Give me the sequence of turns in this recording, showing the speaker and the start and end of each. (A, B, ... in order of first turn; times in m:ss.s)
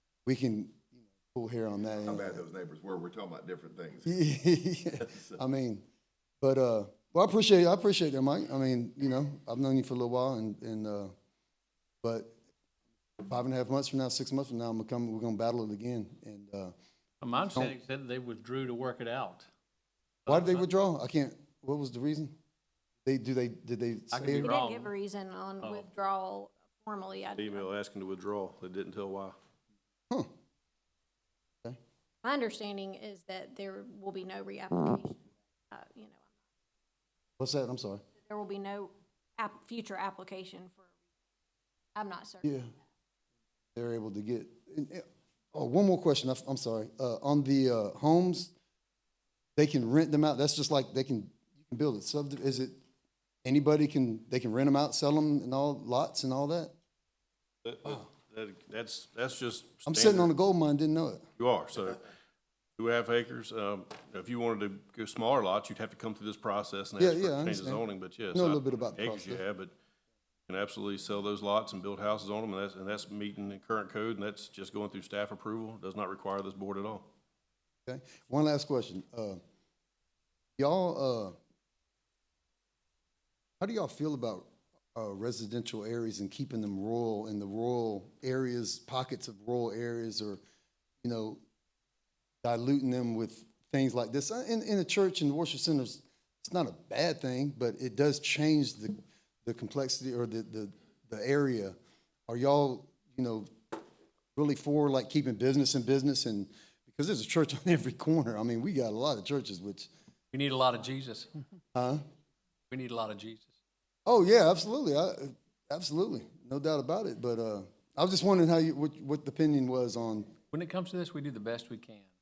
0:00.2-0:02.4 A
0:02.0-0:04.3 B
0:04.0-0:05.8 A
0:05.0-0:05.4 B
0:06.4-0:11.1 A
0:12.0-0:12.4 A
0:13.2-0:16.7 A
0:17.2-0:19.5 C
0:20.2-0:20.7 C
0:20.3-0:22.3 A
0:23.0-0:24.5 A
0:24.1-0:24.9 C
0:24.4-0:27.6 D
0:25.6-0:25.9 C
0:27.4-0:29.4 E
0:32.2-0:36.3 D
0:37.4-0:38.0 A
0:38.3-0:40.9 D
0:41.9-0:42.5 D
0:42.4-0:42.7 A
0:43.7-0:48.5 A
0:49.6-0:52.8 A
0:53.4-0:56.7 A
0:57.6-1:00.3 E
0:59.9-1:01.2 A
1:01.4-1:02.0 E
1:02.8-1:09.7 E
1:07.0-1:09.4 A
1:10.5-1:17.1 E
1:17.8-1:19.4 A
1:20.6-1:21.4 A
1:23.6-1:30.4 A
1:31.0-1:31.4 A
1:32.4-1:41.8 A
1:42.3-1:43.5 A
1:44.3-1:49.9 A
1:50.3-1:51.6 C
1:51.7-1:52.0 A
1:52.7-1:53.6 C
1:54.0-2:00.4 A
2:00.5-2:02.1 C